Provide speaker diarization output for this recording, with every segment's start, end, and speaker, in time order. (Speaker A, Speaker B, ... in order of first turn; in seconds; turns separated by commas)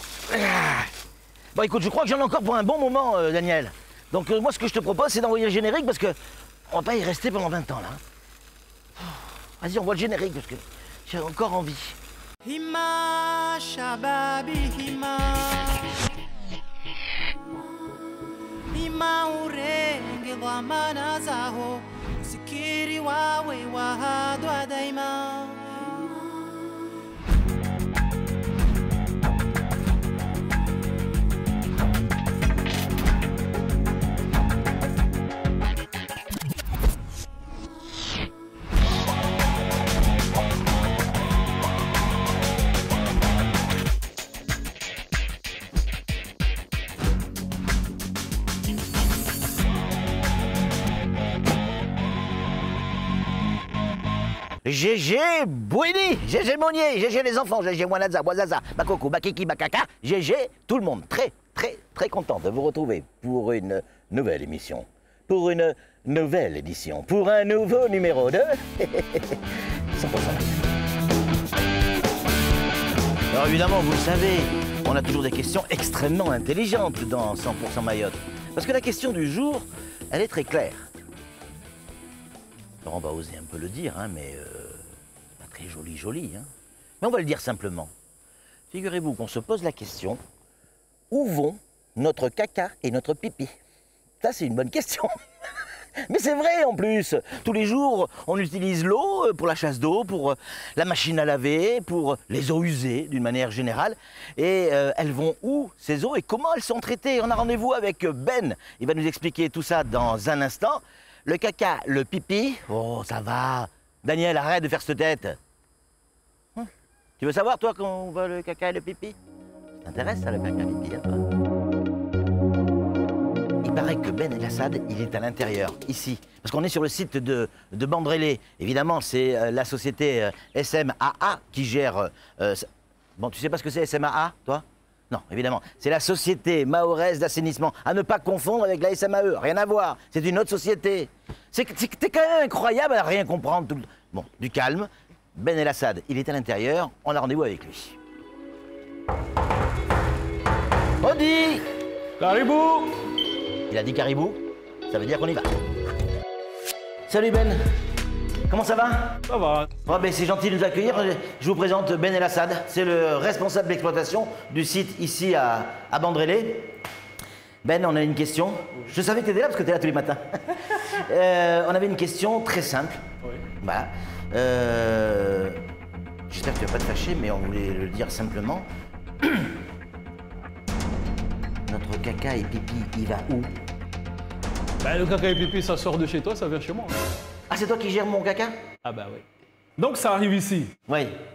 Speaker A: 0.3-0.9, Speaker A: 1.5-6.2, Speaker A: 6.7-8.0, Speaker A: 9.0-12.0, Speaker B: 12.4-15.8, Speaker B: 18.7-26.2, Speaker A: 54.6-70.6, Speaker A: 73.3-80.9, Speaker A: 82.8-84.8, Speaker A: 85.4-86.5, Speaker A: 87.0-87.9, Speaker A: 88.7-90.2, Speaker A: 91.1-93.5, Speaker A: 94.2-95.1, Speaker A: 96.0-115.4, Speaker A: 116.5-119.2, Speaker A: 119.8-121.2, Speaker A: 123.6-148.0, Speaker A: 151.0-151.6, Speaker C: 152.2-152.9, Speaker A: 153.7-155.5, Speaker A: 157.1-157.6, Speaker A: 158.5-159.2, Speaker C: 159.2-159.7, Speaker A: 159.8-166.7, Speaker A: 167.6-173.0, Speaker A: 173.6-175.6, Speaker A: 176.3-178.7, Speaker A: 179.2-179.5, Speaker A: 181.7-183.5, Speaker C: 184.8-186.9, Speaker A: 187.5-188.5, Speaker C: 188.8-189.3, Speaker C: 189.8-190.7, Speaker A: 190.9-191.1